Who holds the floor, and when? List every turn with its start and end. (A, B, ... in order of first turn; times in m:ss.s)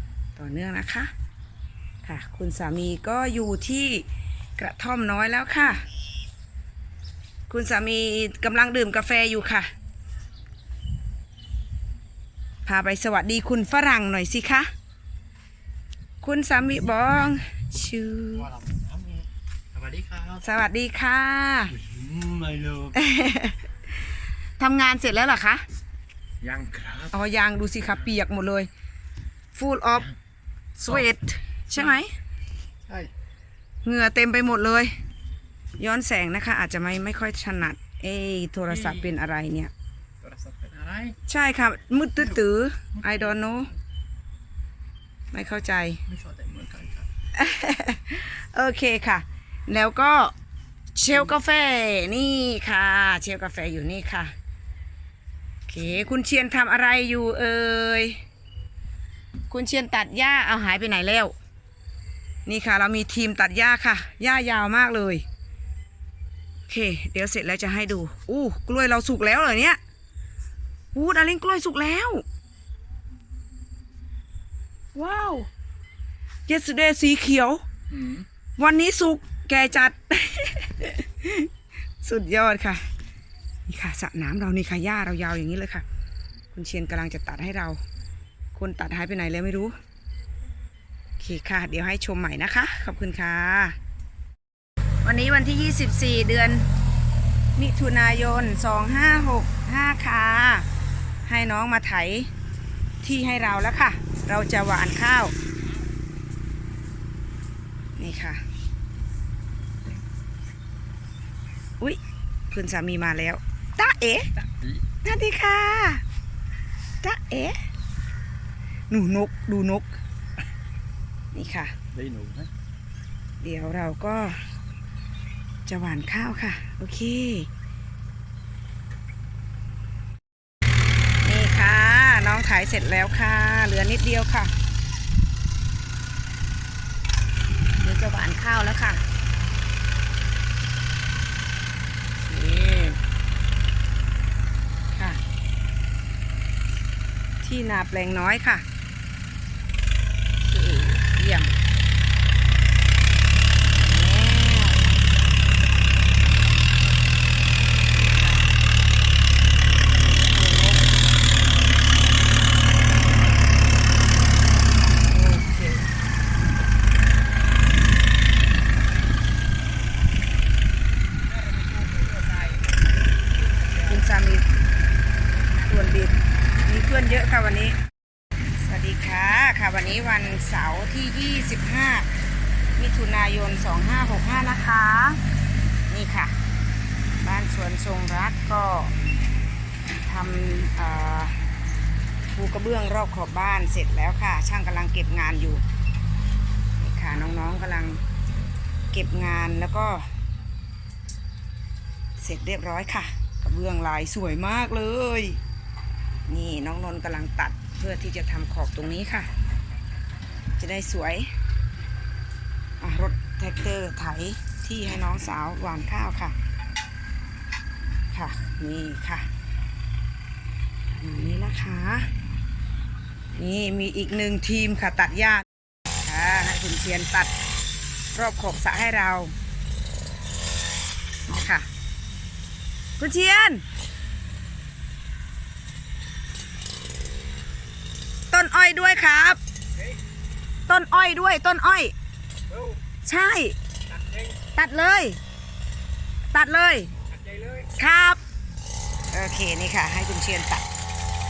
0:00.4-0:01.1 A
0:02.0-0:05.8 A
0:07.5-0:09.7 A
0:12.7-0:14.7 A
0:16.2-0:18.5 A
0:18.4-0:20.4 B
0:20.4-0:21.8 A
0:21.7-0:23.0 B
0:22.9-0:23.7 A
0:24.6-0:25.6 A
0:26.4-0:27.1 B
0:27.1-0:28.7 A
0:29.5-0:30.2 A
0:30.8-0:32.2 A
0:33.8-0:35.0 A
0:35.8-0:39.7 A
0:38.7-0:39.1 B
0:40.2-0:41.2 B
0:41.3-0:43.7 A
0:45.3-0:46.0 A
0:46.1-0:47.1 B
0:47.3-0:50.3 A
0:51.0-0:54.3 A
0:55.7-0:58.2 A
0:59.5-1:01.3 A
1:02.5-1:05.2 A
1:06.7-1:09.8 A
1:10.9-1:12.2 A
1:15.0-1:15.5 A
1:16.5-1:17.6 A
1:17.9-1:18.2 B
1:18.6-1:21.5 A
1:22.0-1:22.9 A
1:23.7-1:25.8 A
1:26.5-1:27.8 A
1:28.6-1:29.8 A
1:31.2-1:33.8 A
1:35.0-1:36.7 A
1:37.6-1:40.7 A
1:41.3-1:42.3 A
1:43.0-1:45.4 A
1:48.0-1:48.4 A
1:52.5-1:54.4 A
1:55.0-1:56.0 A
1:57.0-1:57.6 A
1:58.9-2:00.0 A
2:01.3-2:01.8 A
2:01.9-2:02.5 B
2:03.4-2:04.4 A
2:05.7-2:07.5 A
2:11.2-2:14.5 A
2:17.8-2:19.0 A
2:22.2-2:23.0 A
2:24.9-2:25.2 A
2:27.4-2:28.6 A
2:30.4-2:31.5 A
2:33.8-2:35.0 A
2:38.0-2:38.5 A
2:40.2-2:41.0 A
2:44.8-2:45.9 A
2:51.3-2:52.7 B
2:53.8-2:54.5 A
2:55.6-2:57.8 A
2:58.6-3:02.1 A
3:02.8-3:05.2 A
3:05.9-3:06.4 A
3:07.2-3:08.9 A
3:10.0-3:11.4 A
3:12.3-3:15.6 A
3:16.8-3:18.0 A
3:18.9-3:20.1 A
3:22.2-3:25.4 A
3:26.3-3:29.3 A
3:30.6-3:31.3 A
3:32.8-3:36.4 A
3:38.1-3:39.3 A
3:40.9-3:42.1 A
3:43.4-3:45.5 A
3:46.0-3:47.3 A
3:48.2-3:49.4 A
3:51.3-3:51.7 A
3:53.0-3:53.6 A
3:58.3-3:59.4 A
4:00.7-4:01.9 A
4:02.5-4:02.8 B
4:03.0-4:03.6 A
4:03.9-4:04.4 B
4:04.5-4:05.2 A
4:06.3-4:06.9 A
4:07.1-4:07.7 B
4:07.8-4:08.2 A
4:09.1-4:10.7 A